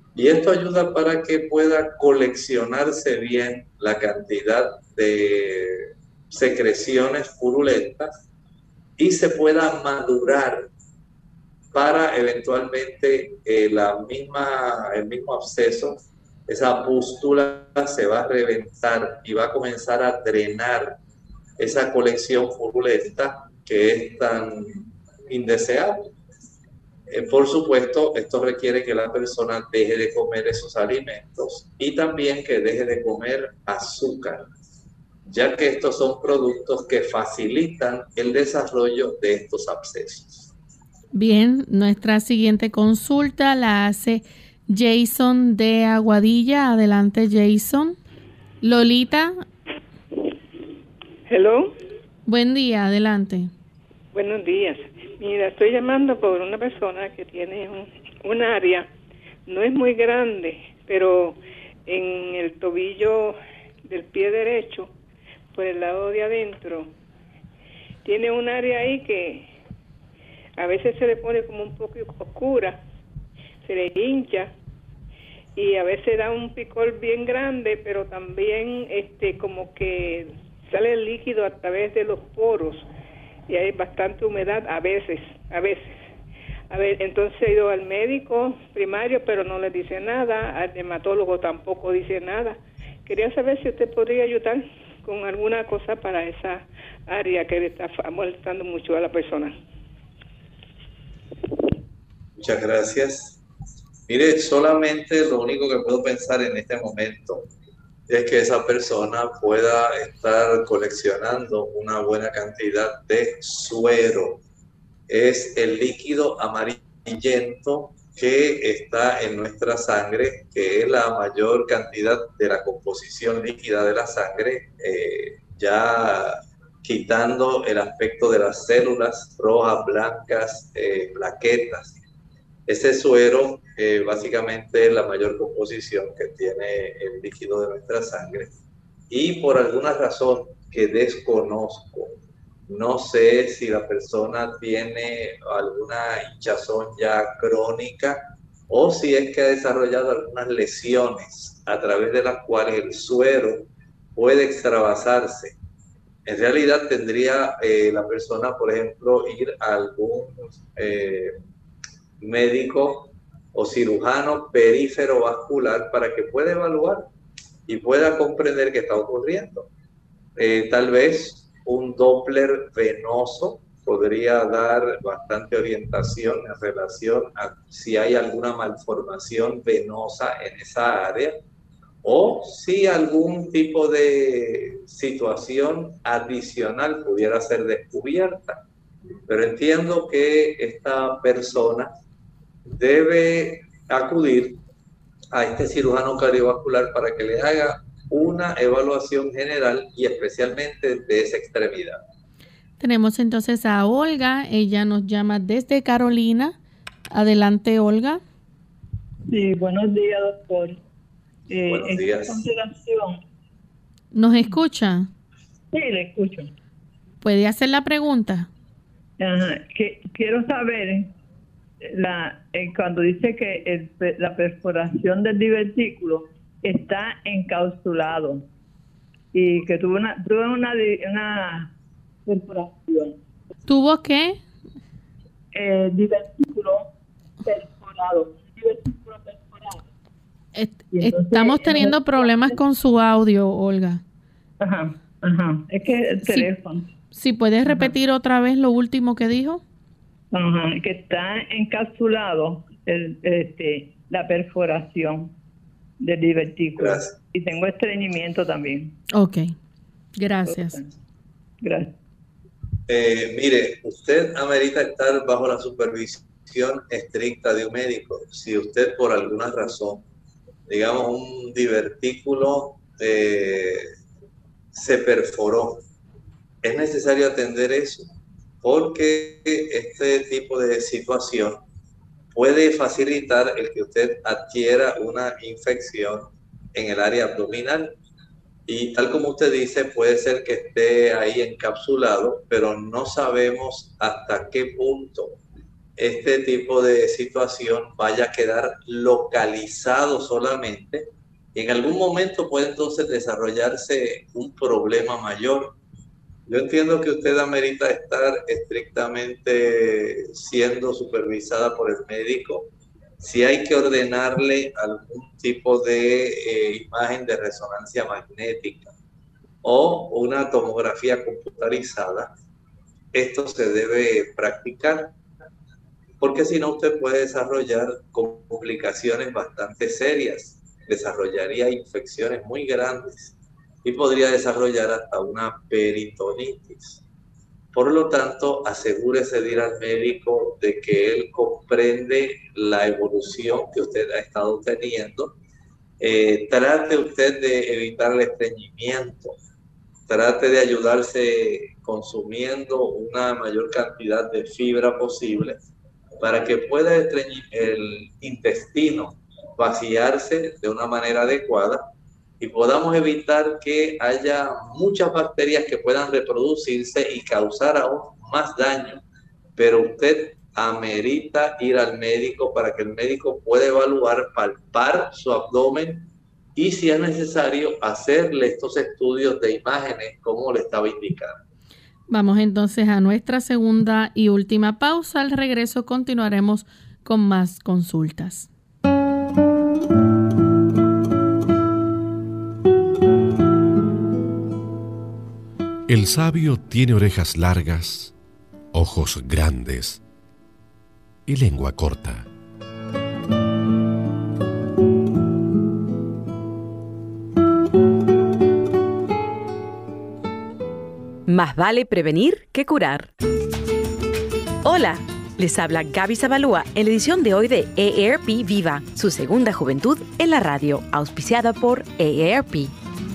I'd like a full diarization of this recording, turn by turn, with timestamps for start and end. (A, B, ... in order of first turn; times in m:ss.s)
0:00.2-0:08.1 A
0:09.0-0:10.7 A
0:11.7-0:21.0 A
0:21.6-0:26.1 A
0:27.1-0:34.5 A
0:35.3-0:40.5 A
0:41.1-0:48.0 B
0:48.6-0:49.4 B
0:51.3-0:51.7 C
0:52.3-0:53.5 B
0:54.1-0:58.9 C
0:59.5-1:04.9 C
1:05.5-1:06.9 C
1:08.0-1:09.5 C
1:10.6-1:12.8 C
1:13.6-1:14.5 C
1:15.6-1:22.9 C
1:23.5-1:25.9 C
1:26.7-1:39.6 C
1:42.4-1:43.4 A
1:44.1-1:47.5 A
1:48.1-1:54.4 A
1:55.1-2:12.0 A
2:12.7-2:18.5 A
2:19.1-2:22.1 A
2:22.7-2:35.6 A
2:36.3-2:41.3 A
2:42.2-2:47.1 A
2:47.7-2:49.7 A
2:50.4-3:01.4 A
3:02.0-3:08.6 A
3:09.3-3:11.9 A
3:12.7-3:14.6 A
3:15.3-3:22.0 A
3:22.8-3:26.6 B
3:27.1-3:28.2 B
3:29.3-3:30.8 D
3:31.5-3:33.2 D
3:31.7-3:32.4 A
3:34.1-3:35.1 B
3:35.7-3:36.5 D
3:37.2-3:38.5 B
3:39.2-3:41.1 D
3:41.8-3:48.4 D
3:49.3-3:51.7 D
3:52.3-3:53.2 D
3:53.7-3:54.4 B
3:55.5-3:56.9 D
3:57.4-3:59.8 D
4:00.6-4:04.0 B
4:00.9-4:02.6 D
4:04.6-4:06.8 D
4:06.3-4:06.5 B
4:07.1-4:09.6 B
4:10.3-4:15.3 D
4:16.0-4:19.0 D
4:16.8-4:17.2 A
4:19.1-4:19.5 B
4:20.2-4:20.8 B
4:20.5-4:20.9 D
4:21.6-4:21.9 D
4:22.9-4:30.0 A
4:30.7-4:33.9 A
4:34.7-4:35.8 A
4:36.6-4:38.1 A
4:38.6-4:41.6 A
4:42.3-4:47.9 A
4:48.7-4:55.4 A
4:56.0-5:05.8 A
5:06.5-5:12.7 A
5:13.2-5:18.9 A
5:19.6-5:22.3 A
5:23.1-5:25.1 A
5:26.2-5:37.0 A
5:37.7-5:45.3 A
5:46.0-5:49.4 A
5:50.1-5:55.6 A
5:56.2-6:01.8 A
6:02.4-6:09.0 A
6:09.6-6:21.4 A
6:22.1-6:28.5 B
6:35.9-6:38.1 E
6:38.7-6:40.0 E
6:41.3-6:42.3 E
6:51.3-6:53.1 F
6:54.6-7:02.7 F